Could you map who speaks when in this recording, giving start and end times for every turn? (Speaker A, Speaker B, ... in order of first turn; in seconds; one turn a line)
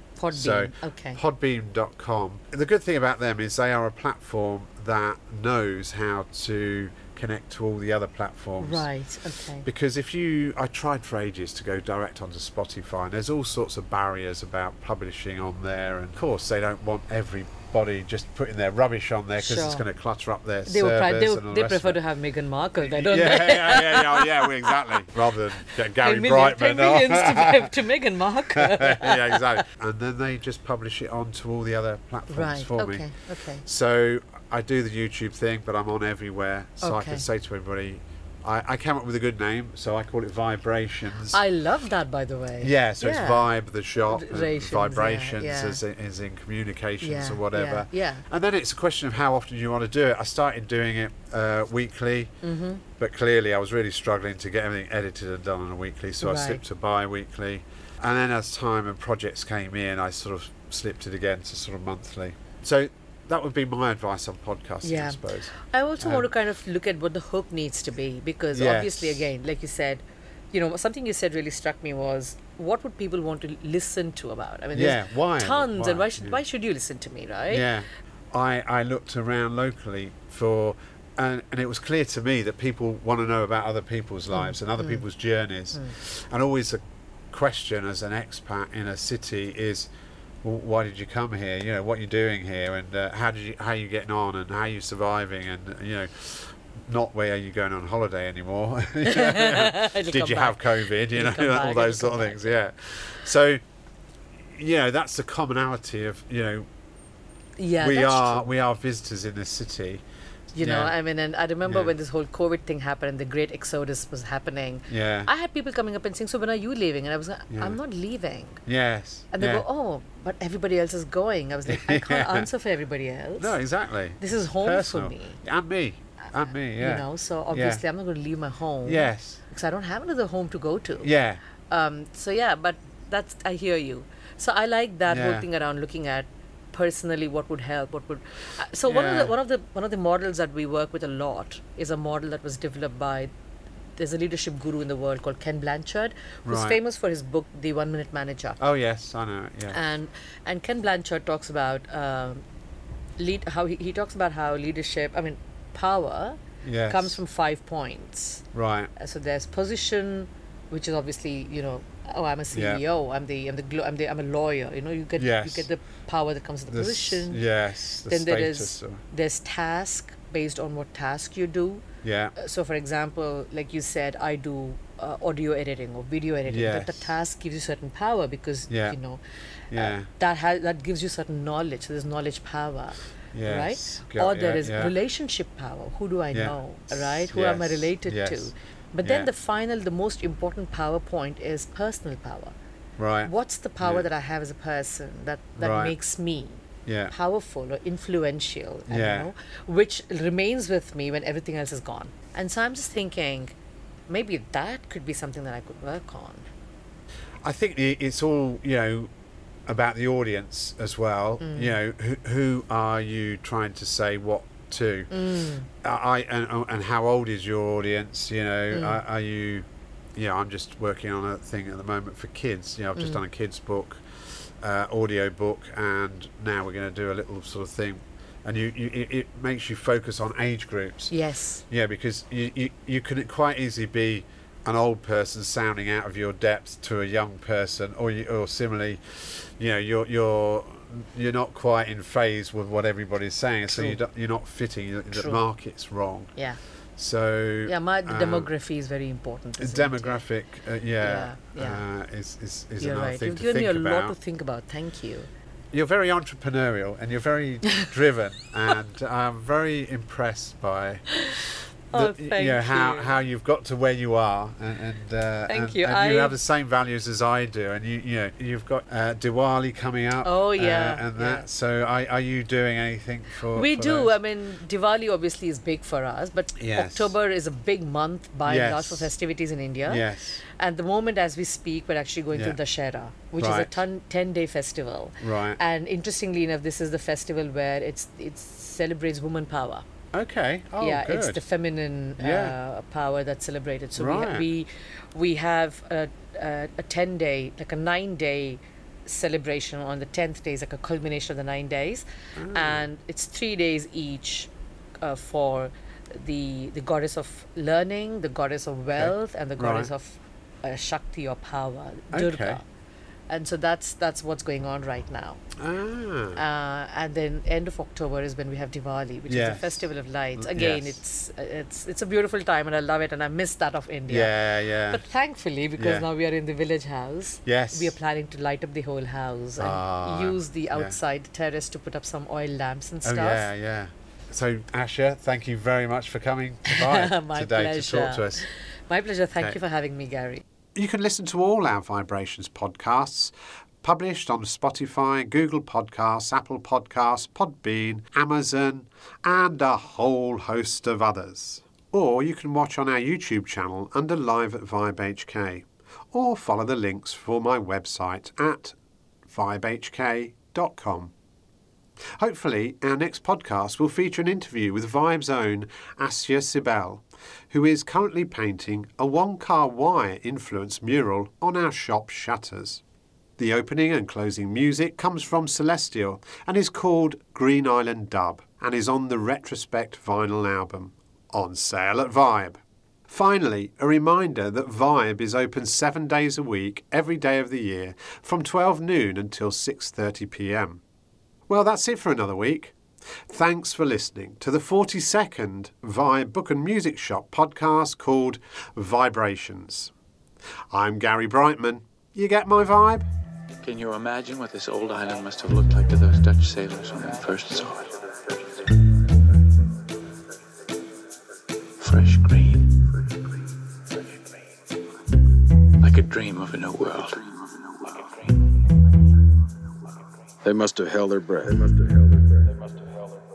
Speaker A: 0.2-1.2
Speaker B: 0.3-8.9
Speaker A: 8.6-9.7
Speaker B: 9.7-22.0
Speaker A: 19.4-19.8
Speaker A: 20.7-25.0
Speaker B: 22.8-27.7
Speaker A: 26.0-29.6
Speaker B: 28.5-33.0
Speaker A: 32.3-33.6
Speaker B: 33.6-41.4
Speaker A: 36.8-37.2
Speaker A: 41.3-43.5
Speaker B: 42.6-52.4
Speaker A: 44.1-45.8
Speaker A: 47.0-48.2
Speaker A: 52.4-52.8
Speaker B: 53.0-66.3
Speaker A: 56.2-56.6
Speaker A: 64.8-77.7
Speaker B: 68.5-69.3
Speaker B: 74.8-76.4
Speaker B: 77.5-89.9
Speaker A: 84.3-85.0
Speaker B: 90.4-103.6
Speaker A: 99.0-102.5
Speaker B: 104.4-106.7
Speaker A: 107.6-108.5
Speaker B: 107.8-110.9
Speaker A: 110.6-118.6
Speaker B: 111.7-111.9
Speaker B: 114.9-115.3
Speaker B: 117.5-117.8
Speaker B: 118.7-119.7
Speaker A: 119.3-123.6
Speaker B: 121.7-122.5
Speaker B: 123.4-127.8
Speaker A: 124.2-125.4
Speaker A: 126.8-131.1
Speaker B: 128.8-129.4
Speaker B: 131.0-131.4
Speaker A: 131.7-143.3
Speaker B: 135.1-135.5
Speaker B: 138.9-139.3
Speaker A: 144.0-148.6
Speaker B: 146.5-146.8
Speaker B: 148.6-149.8
Speaker A: 149.7-152.4
Speaker A: 153.2-158.4
Speaker B: 156.6-157.2
Speaker B: 158.5-158.9
Speaker A: 159.0-167.4
Speaker B: 162.5-162.8
Speaker B: 165.2-165.7
Speaker B: 166.7-169.0
Speaker A: 168.1-171.8
Speaker B: 172.0-172.3
Speaker A: 172.3-179.2
Speaker B: 176.5-177.1
Speaker B: 178.7-179.0
Speaker B: 179.7-180.1
Speaker A: 179.7-192.6
Speaker B: 183.3-184.9
Speaker B: 186.3-188.5
Speaker B: 189.0-189.3
Speaker B: 193.0-194.1
Speaker A: 193.2-203.5
Speaker B: 195.6-195.9
Speaker B: 196.9-197.1
Speaker B: 198.9-199.3
Speaker A: 204.1-206.5
Speaker B: 207.4-209.1
Speaker B: 209.7-215.1
Speaker A: 211.4-211.8
Speaker A: 215.1-215.7
Speaker B: 215.8-231.1
Speaker A: 218.7-219.0
Speaker A: 223.0-223.2
Speaker A: 231.1-231.6
Speaker B: 231.7-246.3
Speaker A: 243.7-244.0
Speaker A: 245.1-245.4
Speaker B: 247.0-248.5
Speaker A: 247.7-250.2
Speaker B: 249.6-254.2
Speaker A: 251.0-251.8
Speaker A: 252.8-255.3
Speaker B: 255.7-261.1
Speaker A: 261.2-263.1
Speaker B: 261.9-274.1
Speaker A: 265.5-266.4
Speaker A: 270.2-271.5
Speaker A: 273.5-289.9
Speaker B: 276.6-277.1
Speaker B: 278.4-279.1
Speaker B: 279.9-280.4
Speaker B: 283.4-283.8
Speaker B: 285.2-285.6
Speaker B: 290.1-291.4
Speaker A: 290.8-304.5
Speaker B: 292.2-292.6
Speaker B: 294.0-294.5
Speaker B: 302.4-302.9
Speaker A: 305.0-312.6
Speaker B: 309.0-309.9
Speaker B: 312.1-312.6
Speaker A: 313.3-315.4
Speaker B: 315.6-316.4
Speaker A: 316.4-333.5
Speaker B: 319.3-321.0
Speaker B: 324.1-325.1
Speaker B: 325.8-326.1
Speaker B: 327.4-327.9
Speaker B: 329.6-331.0
Speaker B: 333.0-338.4
Speaker A: 336.7-340.4
Speaker B: 340.8-358.8
Speaker B: 359.3-361.1
Speaker B: 362.1-372.8
Speaker B: 373.4-390.8
Speaker B: 391.5-392.8
Speaker B: 393.3-399.9
Speaker B: 400.7-403.1
Speaker C: 403.6-408.4
Speaker C: 411.8-413.1
Speaker C: 415.8-418.6
Speaker D: 420.4-422.6